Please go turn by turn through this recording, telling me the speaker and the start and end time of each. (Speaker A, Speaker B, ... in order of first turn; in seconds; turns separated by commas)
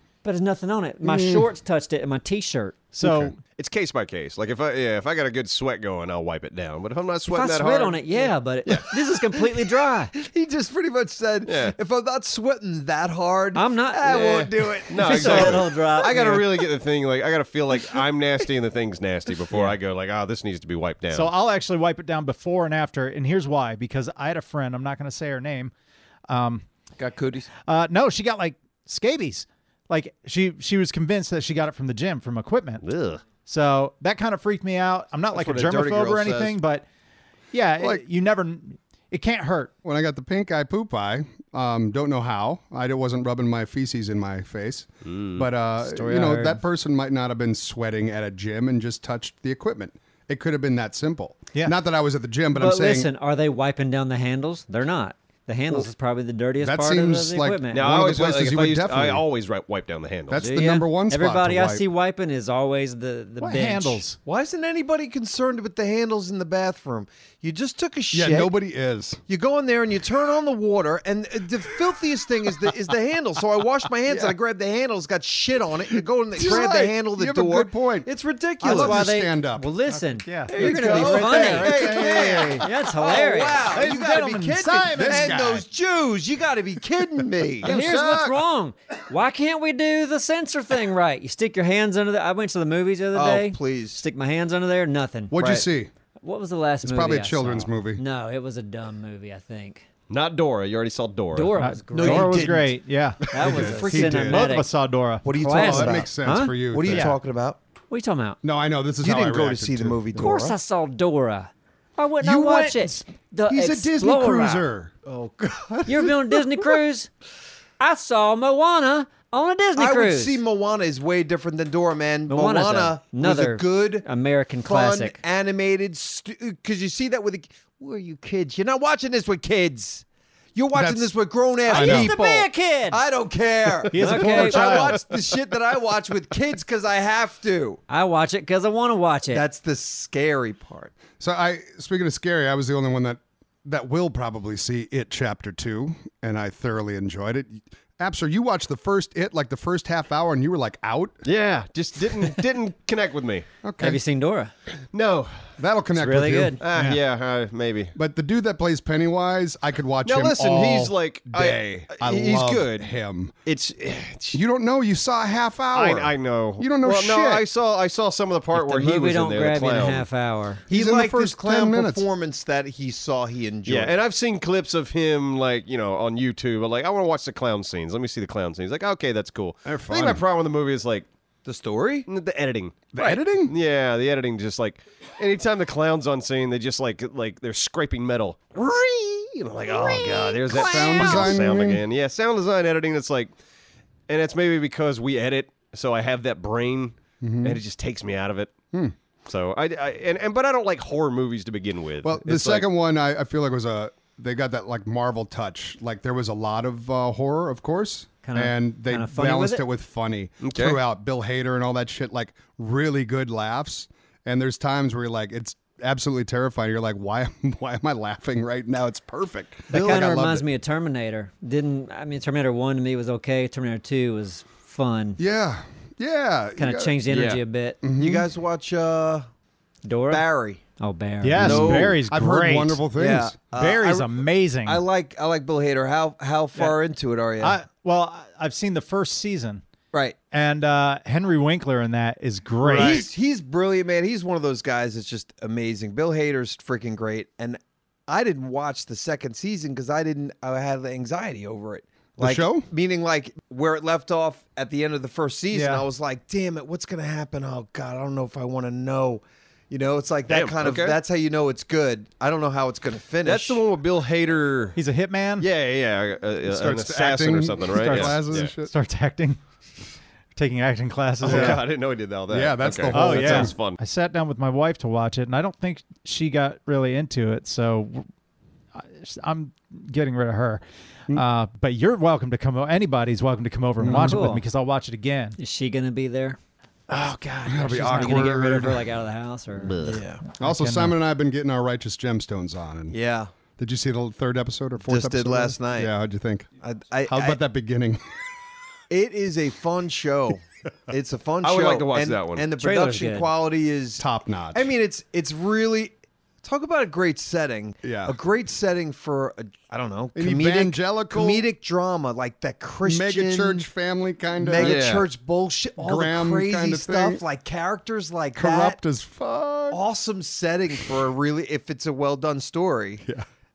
Speaker A: 0.2-2.9, Speaker B: 1.0-1.5, Speaker C: 2.9-3.4, Speaker B: 3.0-3.3, Speaker D: 3.5-8.9, Speaker A: 7.3-10.1, Speaker E: 8.8-16.7, Speaker D: 11.4-11.7, Speaker A: 13.5-16.2, Speaker D: 14.9-21.3, Speaker C: 21.1-25.7, Speaker C: 26.3-26.6, Speaker E: 27.0-27.5, Speaker C: 27.6-32.9, Speaker D: 32.8-33.2, Speaker C: 33.4-36.8, Speaker E: 35.3-36.5, Speaker D: 35.5-36.5, Speaker C: 37.5-39.7, Speaker B: 39.8-53.1, Speaker D: 45.0-45.5, Speaker A: 45.8-46.6, Speaker A: 52.5-57.9, Speaker B: 56.6-59.2, Speaker D: 57.7-60.6, Speaker B: 60.3-61.8, Speaker A: 60.4-64.1, Speaker C: 63.4-64.2, Speaker E: 64.2-68.5, Speaker B: 68.1-69.2, Speaker E: 69.3-79.0, Speaker B: 74.1-74.3, Speaker B: 76.3-78.1, Speaker B: 78.6-79.7, Speaker A: 78.6-82.0, Speaker C: 79.9-82.7, Speaker E: 80.5-87.7, Speaker A: 82.6-83.7, Speaker C: 83.6-85.4, Speaker B: 84.9-85.7, Speaker B: 87.2-88.4, Speaker A: 87.6-95.6, Speaker E: 93.1-94.0, Speaker B: 95.3-95.9, Speaker A: 96.2-99.9, Speaker B: 96.8-98.0, Speaker D: 100.1-101.5, Speaker A: 101.3-102.5, Speaker C: 101.6-105.2, Speaker E: 101.9-102.8, Speaker A: 103.3-104.7, Speaker E: 103.3-104.2, Speaker B: 103.5-104.5, Speaker E: 105.2-107.6, Speaker A: 105.3-106.6, Speaker B: 105.4-107.1, Speaker C: 106.9-107.2, Speaker A: 107.9-108.4, Speaker B: 108.4-110.3, Speaker E: 109.0-110.5, Speaker A: 110.1-114.7, Speaker B: 112.2-112.9, Speaker B: 113.5-114.9, Speaker E: 115.0-116.1, Speaker A: 115.9-117.1, Speaker A: 117.8-120.4, Speaker E: 119.7-124.1, Speaker A: 122.3-125.2, Speaker E: 124.6-137.8, Speaker B: 130.7-131.1, Speaker A: 131.7-133.0, Speaker B: 131.7-132.2, Speaker C: 133.9-135.0, Speaker A: 133.9-134.9, Speaker A: 137.9-139.4, Speaker E: 139.3-140.9, Speaker B: 141.2-151.2, Speaker D: 151.2-153.5, Speaker B: 153.6-154.0, Speaker A: 153.8-154.5, Speaker D: 154.9-155.5, Speaker B: 155.6-157.0, Speaker A: 156.0-156.6, Speaker D: 156.6-157.9, Speaker B: 157.9-163.4, Speaker D: 160.0-162.6, Speaker E: 162.5-162.9, Speaker D: 163.5-164.4, Speaker B: 164.3-167.4, Speaker D: 165.7-170.0, Speaker A: 168.5-170.7, Speaker E: 170.7-173.9, Speaker B: 170.7-172.1, Speaker D: 173.7-181.1, Speaker B: 179.6-180.2, Speaker E: 181.4-182.1, Speaker D: 182.1-193.3, Speaker B: 182.9-183.5, Speaker E: 189.7-191.4, Speaker B: 190.5-191.8, Speaker D: 194.1-198.5, Speaker B: 197.2-197.6, Speaker D: 199.2-202.7, Speaker B: 202.0-220.5, Speaker A: 208.2-209.6, Speaker D: 210.4-210.8, Speaker A: 219.7-225.2, Speaker B: 225.2-227.0, Speaker A: 226.6-227.9, Speaker D: 227.1-227.4, Speaker B: 227.8-228.2, Speaker E: 227.9-229.3, Speaker A: 229.8-230.2, Speaker E: 230.1-230.6, Speaker A: 230.8-231.6, Speaker C: 231.2-232.8, Speaker B: 231.3-233.3, Speaker E: 231.4-231.9, Speaker E: 233.0-237.6, Speaker C: 233.5-234.8, Speaker C: 237.4-239.6, Speaker C: 240.3-243.1, Speaker E: 242.6-263.6, Speaker B: 242.7-243.1, Speaker B: 252.2-252.7, Speaker C: 255.5-255.8, Speaker D: 260.3-261.0, Speaker D: 263.2-264.8, Speaker C: 264.8-265.5, Speaker D: 265.4-268.5, Speaker B: 266.4-268.7, Speaker C: 267.7-269.4, Speaker C: 270.3-271.6, Speaker D: 271.2-273.8, Speaker B: 271.2-271.6, Speaker B: 272.3-273.5, Speaker C: 272.9-278.1, Speaker C: 278.7-285.4, Speaker B: 283.8-284.2, Speaker A: 283.9-284.4, Speaker A: 285.4-286.4, Speaker E: 286.9-288.3, Speaker B: 287.4-288.9, Speaker A: 287.8-289.9, Speaker E: 289.8-290.2, Speaker C: 290.3-290.9, Speaker B: 290.4-292.9, Speaker E: 292.9-293.3, Speaker B: 293.6-296.5, Speaker E: 294.8-295.9, Speaker E: 296.6-297.4, Speaker B: 297.1-298.0, Speaker E: 298.9-313.6, Speaker D: 301.4-302.5, Speaker A: 302.6-303.3, Speaker B: 304.0-304.7, Speaker B: 307.8-308.1, Speaker B: 310.1-311.5, Speaker B: 312.8-314.9, Speaker E: 314.4-318.8, Speaker D: 314.6-315.1, Speaker B: 315.8-317.2, Speaker B: 318.3-319.8, Speaker E: 319.7-323.0